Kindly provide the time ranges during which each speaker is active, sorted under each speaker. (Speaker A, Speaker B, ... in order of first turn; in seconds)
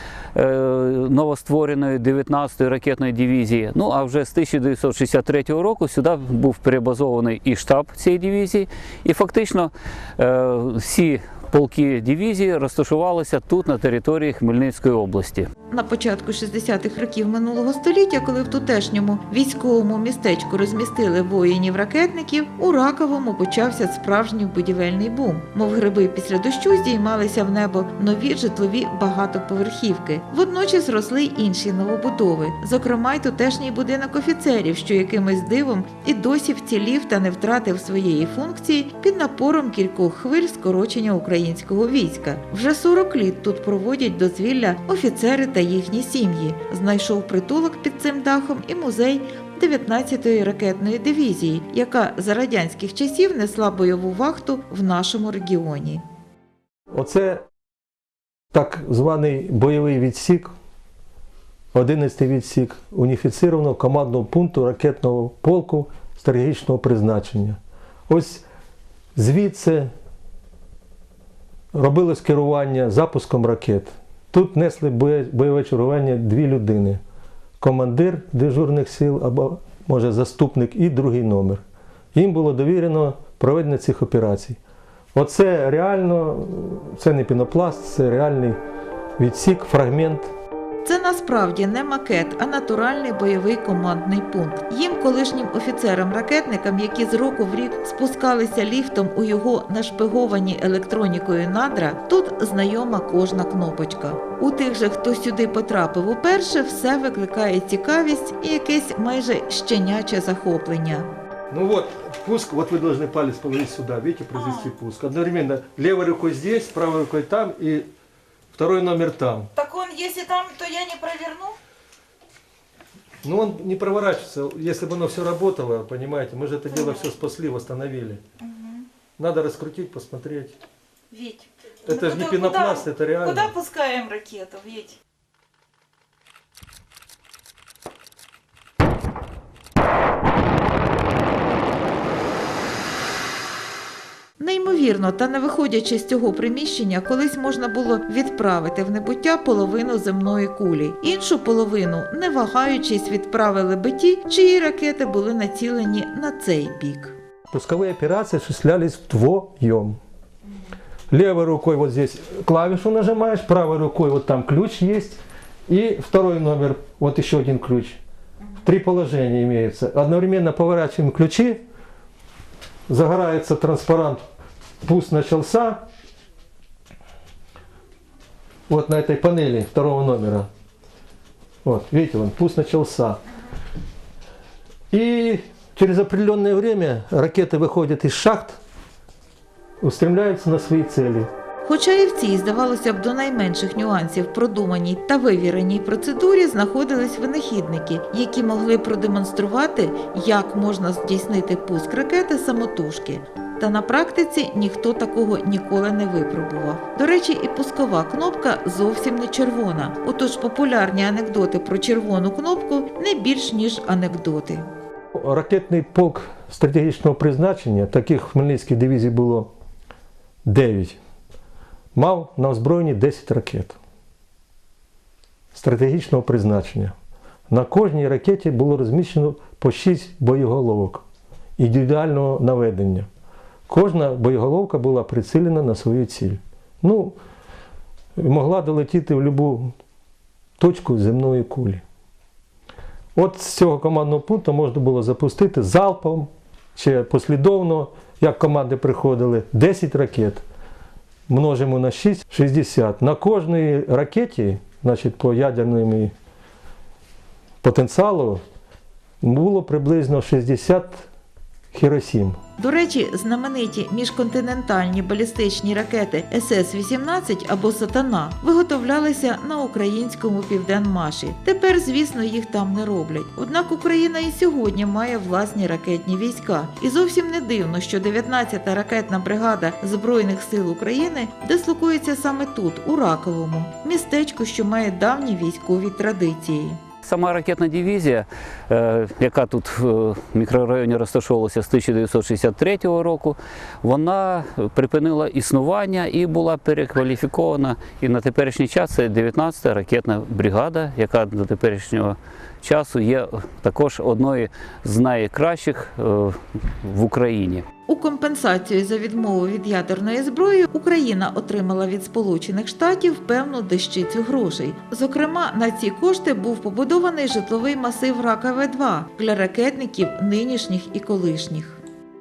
Speaker A: 0.3-15.5, 287.0-307.6
Speaker B: 15.7-56.0, 90.8-111.1, 114.3-114.7, 119.5-121.5, 126.7-127.1, 128.4-128.8, 131.1-135.0, 144.4-157.2, 191.6-214.6, 262.6-286.8, 307.9-321.8
Speaker C: 56.9-57.4, 58.5-60.5, 61.7-67.6, 68.1-68.4, 69.2-69.9, 71.7-77.0, 77.6-81.6, 82.1-84.6, 85.1-88.6, 89.2-90.3, 111.5-117.9, 118.5-119.5, 123.2-128.2, 129.2-130.5, 131.8-133.5, 157.5-160.0, 161.1-168.0, 168.6-171.6, 172.9-174.2, 174.8-175.8, 178.7-180.5, 181.6-183.2, 184.9-188.6, 189.8-191.3, 215.2-219.5, 220.4-221.0, 221.9-223.8, 225.5-226.9, 227.5-231.0, 231.6-233.1, 233.7-237.2, 238.2-239.7, 240.6-241.8, 243.1-250.4, 251.3-256.1, 257.6-258.4, 259.2-261.1, 261.7-262.4